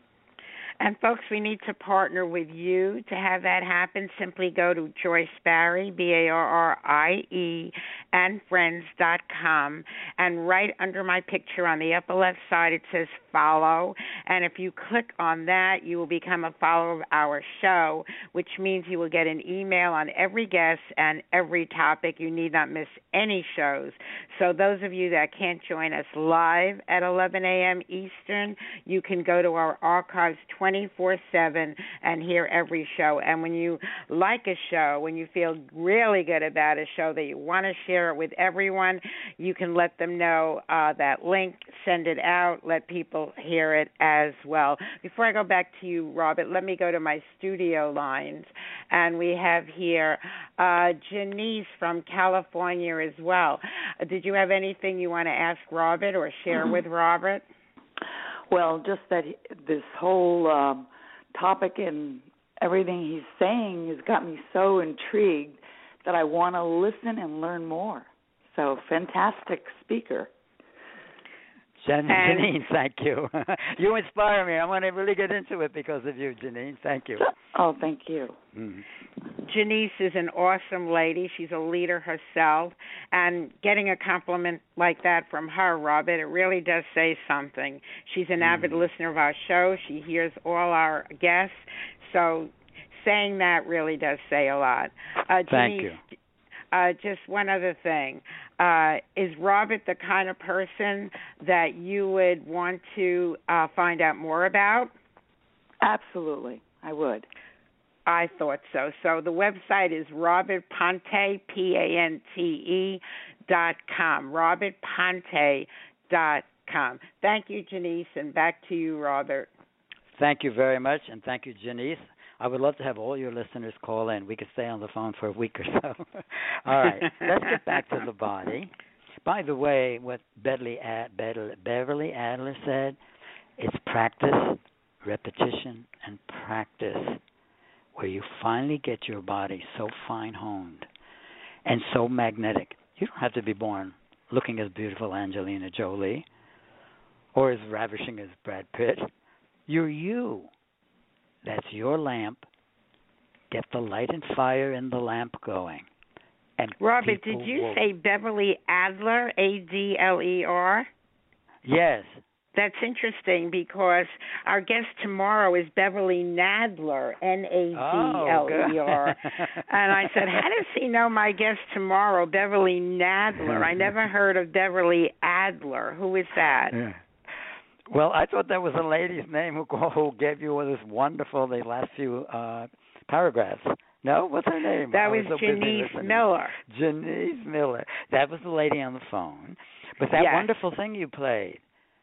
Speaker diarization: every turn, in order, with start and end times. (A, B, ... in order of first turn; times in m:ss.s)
0:00.8-0:57.4 A
0:58.5-1:10.3 B
1:11.8-1:17.2 C
1:12.1-1:12.5 A
1:17.2-1:18.4 B
1:18.5-1:18.8 C
1:19.4-1:36.0 A
1:28.4-1:28.9 C
1:35.5-1:36.0 C
1:36.7-1:44.9 A
1:45.8-1:47.3 B
1:48.1-1:59.5 A
2:00.1-2:08.7 C
2:09.2-2:13.0 C
2:13.6-2:17.2 C
2:18.0-2:20.9 C
2:21.6-2:26.3 C
2:27.3-2:29.1 C
2:29.7-2:30.5 C
2:31.4-2:32.5 C
2:33.5-2:35.9 C
2:36.6-2:37.8 C
2:36.8-2:40.9 A
2:41.6-2:42.2 C
2:42.6-2:56.8 A
2:47.7-2:50.4 C
2:53.4-2:54.0 C
2:56.7-2:57.0 C
2:57.9-3:11.6 C
3:04.9-3:06.6 A
3:10.2-3:10.5 A